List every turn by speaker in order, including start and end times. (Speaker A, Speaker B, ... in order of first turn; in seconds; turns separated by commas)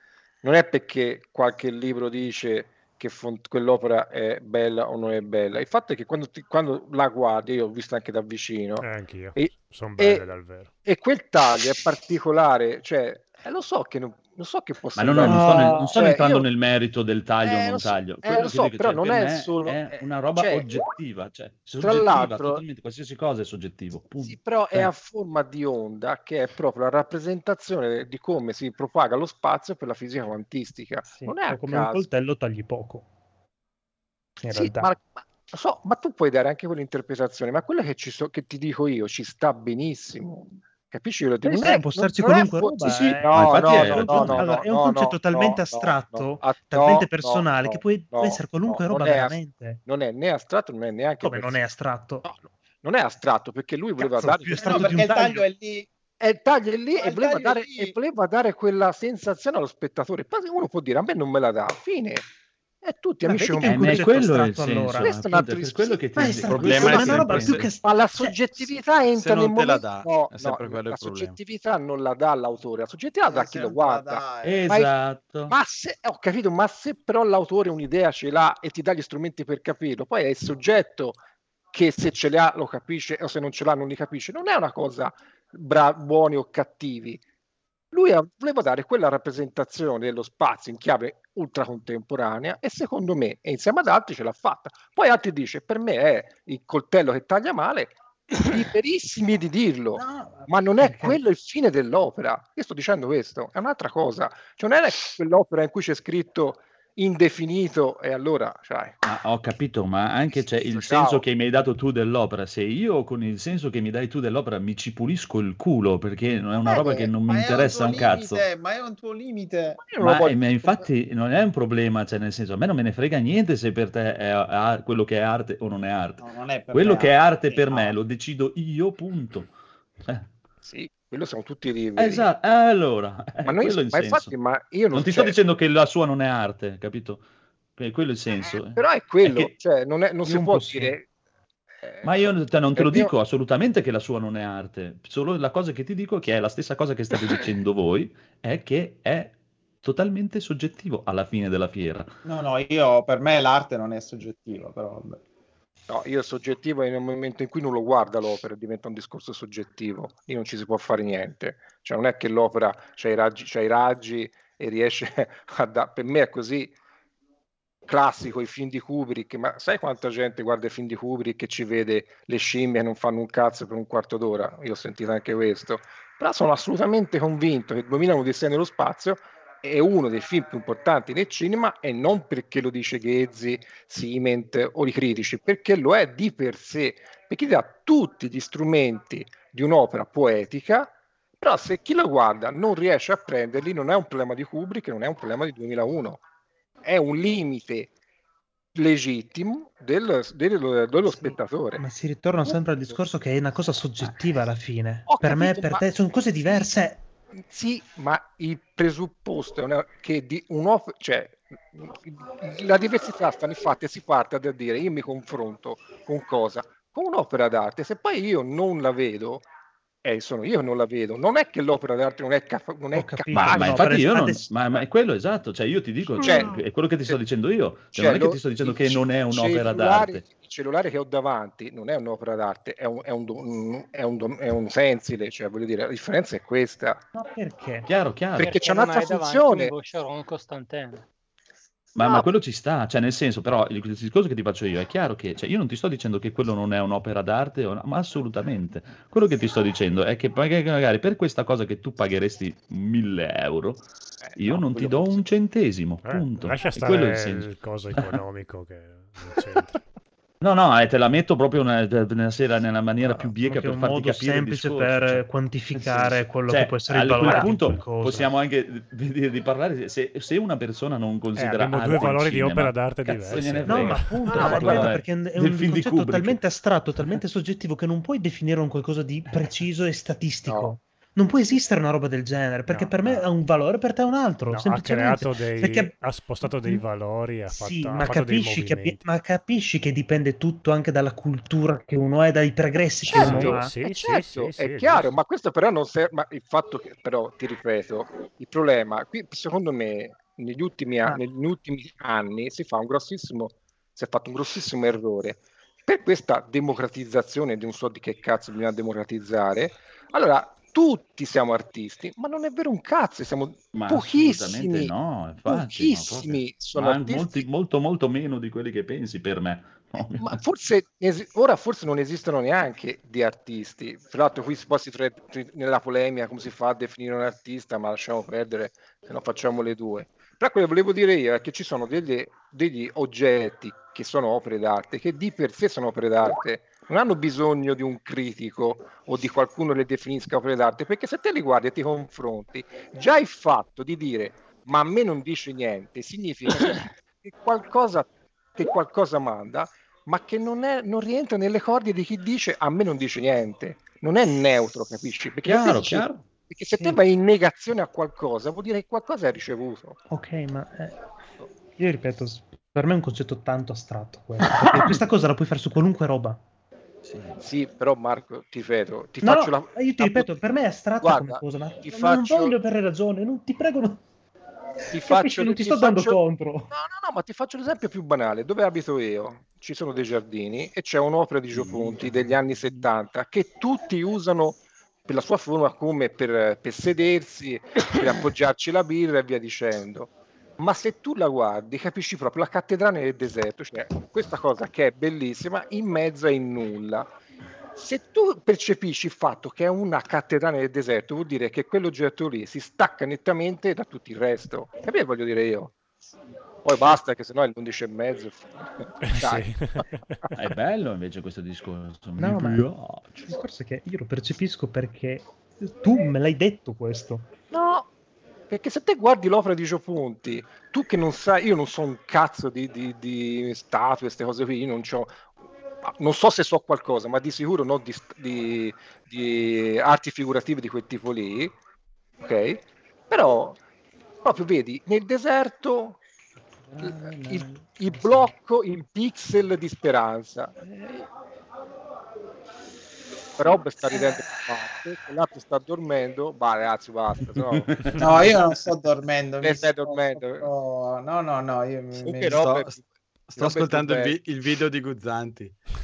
Speaker A: 0.4-10.2, Speaker B: 8.8-10.7, Speaker A: 10.8-16.5, Speaker C: 14.9-24.9, Speaker D: 15.3-15.9, Speaker A: 17.4-20.7, Speaker A: 21.8-22.6, Speaker A: 24.2-32.1, Speaker D: 31.1-33.1, Speaker D: 34.4-35.0, Speaker A: 34.4-51.6, Speaker D: 41.4-49.8, Speaker C: 42.9-44.5, Speaker D: 51.2-52.2, Speaker A: 52.2-55.0, Speaker D: 54.0-55.4, Speaker E: 54.5-55.9, Speaker A: 56.2-62.3, Speaker E: 57.0-58.0, Speaker A: 62.8-74.9, Speaker D: 63.2-65.2, Speaker C: 63.6-67.7, Speaker D: 66.2-68.7, Speaker F: 66.6-67.6, Speaker F: 69.1-71.4, Speaker E: 73.3-74.7, Speaker C: 74.4-75.5, Speaker A: 75.5-81.2, Speaker A: 81.7-87.2, Speaker A: 87.9-109.0, Speaker D: 99.9-101.2, Speaker C: 109.0-118.4, Speaker A: 110.3-111.2, Speaker E: 116.6-119.8, Speaker A: 119.8-120.9, Speaker C: 120.0-129.5, Speaker E: 126.2-128.0, Speaker A: 130.6-132.3, Speaker C: 132.0-134.3, Speaker A: 133.4-135.4, Speaker C: 134.9-137.2, Speaker C: 137.8-139.5, Speaker A: 138.8-141.1, Speaker D: 140.3-140.9, Speaker A: 141.8-143.1, Speaker C: 142.0-152.1, Speaker E: 152.2-155.2, Speaker A: 155.9-166.7, Speaker A: 167.9-196.2, Speaker A: 196.8-197.9, Speaker A: 198.8-201.8, Speaker D: 201.1-207.0, Speaker A: 202.4-203.0, Speaker A: 205.1-206.7, Speaker A: 207.4-219.5, Speaker A: 220.0-223.9, Speaker D: 222.9-224.6, Speaker C: 223.3-230.2, Speaker A: 226.2-227.2, Speaker D: 226.2-226.5, Speaker A: 227.9-237.0, Speaker D: 237.2-237.9, Speaker C: 237.9-238.6, Speaker A: 238.4-239.7, Speaker G: 238.4-241.1, Speaker C: 242.0-258.2, Speaker A: 254.2-255.2, Speaker B: 256.0-259.8, Speaker C: 260.4-265.2, Speaker A: 263.0-263.3, Speaker D: 263.4-268.3, Speaker C: 265.8-276.4, Speaker B: 271.4-274.5, Speaker D: 273.6-286.8, Speaker A: 280.5-280.8, Speaker B: 282.7-283.2, Speaker B: 284.5-289.0, Speaker D: 287.5-293.7, Speaker A: 293.1-314.9, Speaker B: 293.1-295.2, Speaker C: 313.7-320.4, Speaker A: 315.5-317.5, Speaker A: 320.2-360.0, Speaker C: 355.4-356.3, Speaker D: 360.1-361.0, Speaker D: 361.8-366.4, Speaker C: 367.1-367.4, Speaker A: 367.4-370.4, Speaker D: 369.2-374.0, Speaker A: 371.0-372.6, Speaker A: 374.9-397.1, Speaker D: 374.9-376.7, Speaker C: 381.7-382.1, Speaker A: 397.8-405.8, Speaker A: 406.6-409.5, Speaker B: 409.1-409.9, Speaker C: 410.4-413.3, Speaker D: 412.2-412.7, Speaker D: 413.2-417.3, Speaker A: 417.4-417.9, Speaker A: 418.5-425.2, Speaker A: 425.9-431.6, Speaker A: 432.2-433.6, Speaker A: 434.2-436.0, Speaker D: 436.7-438.3, Speaker A: 436.8-440.9, Speaker A: 443.4-448.3, Speaker C: 447.3-448.3, Speaker E: 448.0-452.4, Speaker A: 449.4-450.5, Speaker A: 452.0-452.8, Speaker F: 452.3-452.8, Speaker F: 453.3-455.6, Speaker A: 453.4-454.2